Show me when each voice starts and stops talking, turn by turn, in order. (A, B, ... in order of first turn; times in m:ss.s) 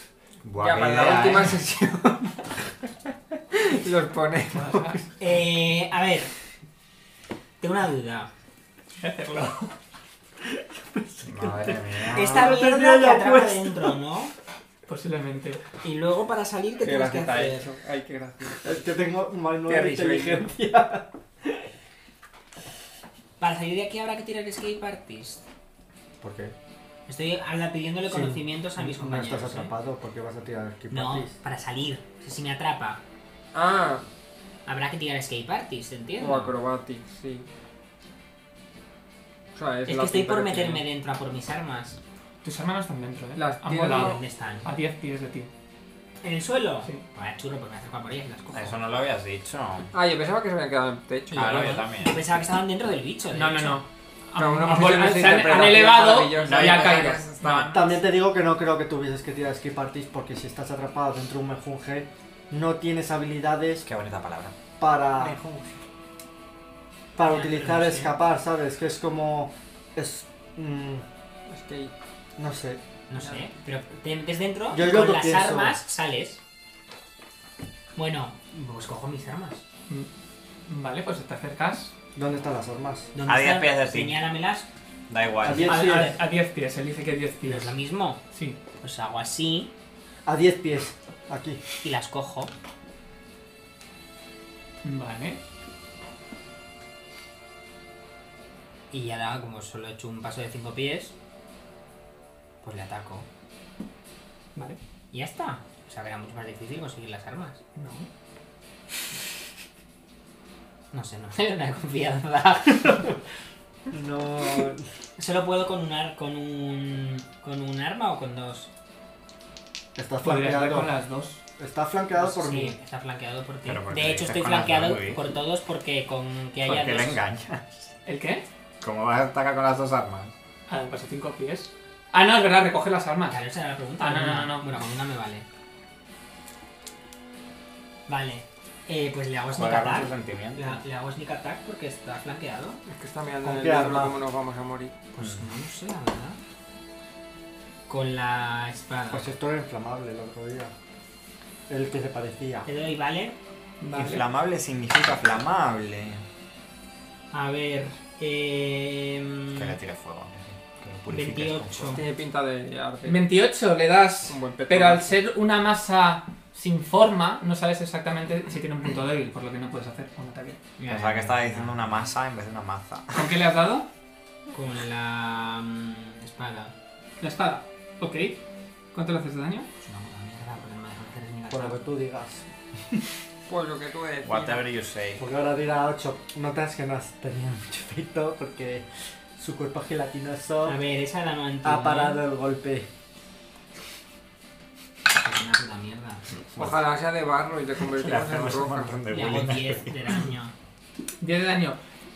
0:00.4-0:01.6 A
0:00.6-0:02.5 B
0:03.5-0:05.1 B
0:04.5-0:05.0 C
0:05.2-0:06.3 D
0:07.6-0:08.3 D
0:09.0-0:09.7 C
0:10.5-0:14.0 E
0:11.2-0:12.6 A
0:12.1-0:14.3 D
0:14.9-0:15.6 C
0:15.8-0:17.6 D
0:16.8-0:18.8 B
0:18.6-0:21.6 E
0:19.7-0:20.5 B
0:23.4-0:25.4 D
0:26.2-0:26.5 E
0:27.1-0:29.8 D
0:28.1-0:31.4 E
0:30.9-0:33.0 D
0:33.5-0:34.0 B
0:34.7-0:36.6 D
0:36.2-0:37.5 B
0:39.6-0:40.8 B
0:39.9-0:42.0 D
0:42.4-0:45.5 C
0:43.4-0:44.2 B
0:43.9-0:44.7 D
0:46.2-0:48.9 D
0:48.5-0:49.9 A
0:49.9-0:51.7 B
0:51.3-0:53.8 D
0:51.3-0:52.2 A
0:53.3-0:57.7 C
0:54.4-0:57.2 B
0:56.4-0:58.0 A
0:57.7-1:03.9 E
1:03.8-1:04.5 A
1:04.8-1:05.8 E
1:07.2-1:11.0 E
1:07.2-1:08.2 D
1:11.5-1:11.9 B
1:12.4-1:12.8 E
1:13.1-1:16.4 D
1:13.2-1:13.5 B
1:14.7-1:15.8 E
1:18.0-1:19.6 D
1:20.7-1:21.9 C
1:22.2-1:23.1 E
1:23.2-1:24.7 D
1:23.3-1:24.3 A
1:25.1-1:25.8 A
1:25.4-1:26.2 E
1:25.6-1:26.2 D
1:25.7-1:27.7 C
1:27.4-1:28.2 D
1:28.3-1:28.6 C
1:28.8-1:29.7 D
1:30.3-1:31.6 E
1:31.8-1:32.5 D
1:34.8-1:35.4 C
1:38.9-1:41.1 D
1:42.6-1:43.3 D
1:45.1-1:47.6 D
1:47.8-1:48.1 C
1:50.9-1:53.1 D
1:53.9-1:54.8 E
1:55.2-1:58.7 D
2:00.0-2:00.9 E
2:00.2-2:01.4 C
2:01.6-2:02.8 E
2:02.2-2:07.2 D
2:03.7-2:05.2 A
2:06.7-2:07.9 A
2:08.1-2:08.5 C
2:08.8-2:10.3 A
2:10.7-2:13.4 C
2:13.3-2:15.5 D
2:14.0-2:14.7 C
2:18.1-2:22.8 D
2:19.6-2:20.8 A
2:22.9-2:25.0 B
2:23.4-2:24.2 E
2:25.1-2:26.4 D
2:27.9-2:29.3 D
2:29.1-2:30.7 E
2:31.7-2:32.7 E
2:32.7-2:33.4 D
2:33.8-2:34.2 C
2:33.9-2:36.2 A
2:37.3-2:39.8 D
2:39.6-2:42.0 A
2:41.1-2:42.0 D
2:41.9-2:43.2 B
2:43.0-2:50.6 C
2:44.3-2:45.2 B
2:50.8-2:51.9 D
2:50.9-2:53.2 A
2:53.1-2:53.9 C
2:54.5-2:56.7 D
2:57.2-2:58.4 C
2:58.9-2:59.7 C
2:59.8-3:01.8 D
3:01.5-3:02.5 E
3:03.5-3:04.7 B
3:04.2-3:05.2 A
3:05.2-3:10.8 E
3:10.6-3:12.2 D
3:11.6-3:12.9 E
3:15.2-3:16.3 D
3:16.6-3:19.4 B
3:16.6-3:16.8 A
3:17.9-3:20.1 A
3:19.1-3:20.5 D
3:21.2-3:21.8 C